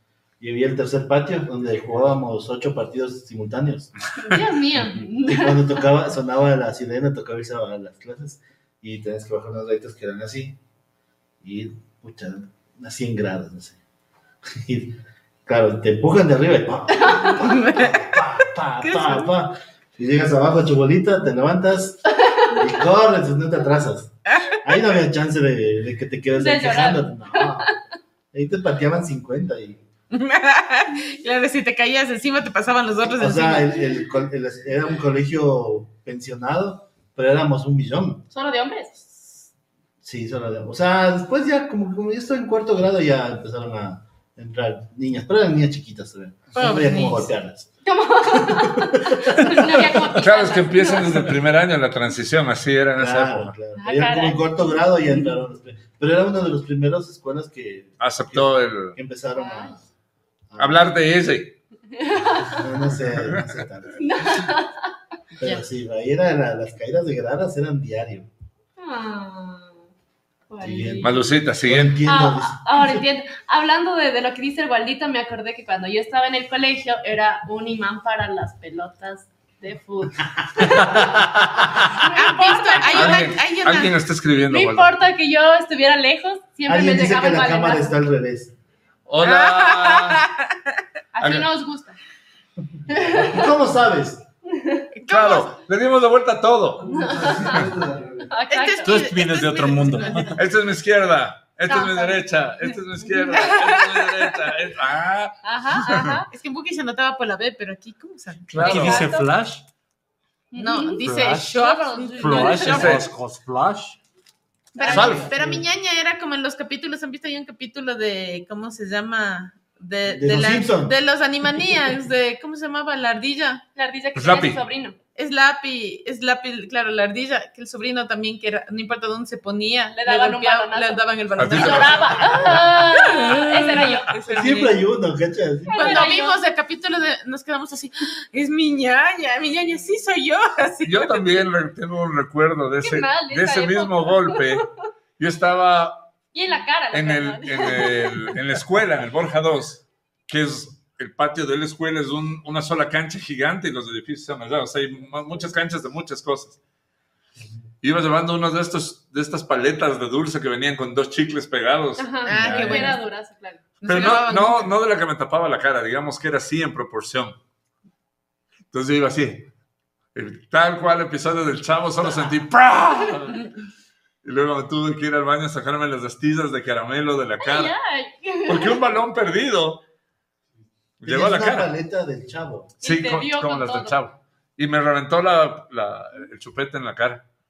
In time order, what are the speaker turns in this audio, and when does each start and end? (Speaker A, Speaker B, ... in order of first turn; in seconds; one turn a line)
Speaker A: 0.4-3.9
Speaker B: 4.2-5.8
Speaker A: 5.2-10.6
Speaker A: 11.4-13.8
Speaker A: 14.5-27.7
Speaker B: 17.0-17.3
Speaker C: 17.3-18.3
Speaker C: 18.8-19.3
Speaker B: 22.2-22.6
Speaker C: 24.3-24.7
Speaker B: 26.4-27.8
Speaker A: 28.3-29.8
Speaker C: 30.1-34.0
Speaker A: 33.1-38.3
Speaker B: 38.3-39.2
Speaker A: 40.0-47.7
Speaker C: 46.5-47.3
Speaker B: 47.9-51.4
Speaker A: 48.3-49.7
Speaker D: 50.0-53.5
Speaker A: 53.0-59.8
Speaker B: 53.8-54.9
Speaker D: 58.0-59.0
Speaker B: 59.4-59.8
Speaker A: 60.5-60.9
Speaker D: 60.6-61.6
Speaker B: 62.0-62.6
Speaker A: 62.4-64.4
Speaker D: 63.2-63.6
Speaker B: 64.0-64.9
Speaker A: 65.4-68.3
Speaker B: 68.8-69.8
Speaker B: 70.5-71.2
Speaker A: 70.6-73.0
Speaker D: 71.0-72.0
Speaker B: 72.0-83.4
Speaker E: 80.6-82.1
Speaker C: 82.2-84.0
Speaker D: 82.9-84.9
Speaker B: 84.5-88.0
Speaker A: 86.7-88.5
Speaker D: 89.1-90.2
Speaker C: 89.2-90.5
Speaker B: 91.1-92.0
Speaker D: 91.2-91.5
Speaker A: 92.8-94.2
Speaker B: 92.9-93.5
Speaker B: 94.5-94.9
Speaker C: 95.0-95.5
Speaker D: 95.1-97.7
Speaker A: 96.9-98.3
Speaker B: 97.1-97.7
Speaker B: 98.2-99.1
Speaker C: 98.5-100.4
Speaker E: 98.8-100.4
Speaker D: 100.3-106.2
Speaker B: 101.7-102.2
Speaker B: 103.1-103.4
Speaker C: 103.3-104.4
Speaker B: 105.4-106.3
Speaker C: 106.3-109.0
Speaker D: 108.5-109.1
Speaker E: 108.6-109.6
Speaker B: 108.6-109.3
Speaker B: 110.5-112.9
Speaker C: 110.5-113.0
Speaker E: 111.0-111.5
Speaker E: 112.2-114.0
Speaker D: 112.6-113.1
Speaker B: 114.8-115.3
Speaker C: 114.8-123.6
Speaker A: 114.8-115.7
Speaker D: 114.9-115.3
Speaker A: 120.1-121.0
Speaker B: 123.8-125.0
Speaker D: 124.2-124.6
Speaker C: 125.2-134.8
Speaker B: 129.9-134.2
Speaker D: 131.4-132.7
Speaker D: 133.3-133.9
Speaker A: 134.3-136.1
Speaker B: 135.7-136.4
Speaker C: 135.8-141.5
Speaker D: 140.8-144.7
Speaker B: 142.8-144.7
Speaker D: 145.2-146.1
Speaker B: 146.3-148.3
Speaker D: 146.9-156.6
Speaker D: 157.8-162.3
Speaker B: 162.0-163.6
Speaker C: 162.2-163.0
Speaker E: 162.3-163.0
Speaker C: 163.8-164.7
Speaker D: 163.8-167.4
Speaker D: 168.7-169.5
Speaker D: 170.1-173.5
Speaker D: 174.2-177.7
Speaker B: 177.4-178.8
Speaker D: 178.5-179.8
Speaker D: 181.0-181.7
Speaker A: 181.0-182.8
Speaker B: 182.8-184.0
Speaker D: 182.8-187.2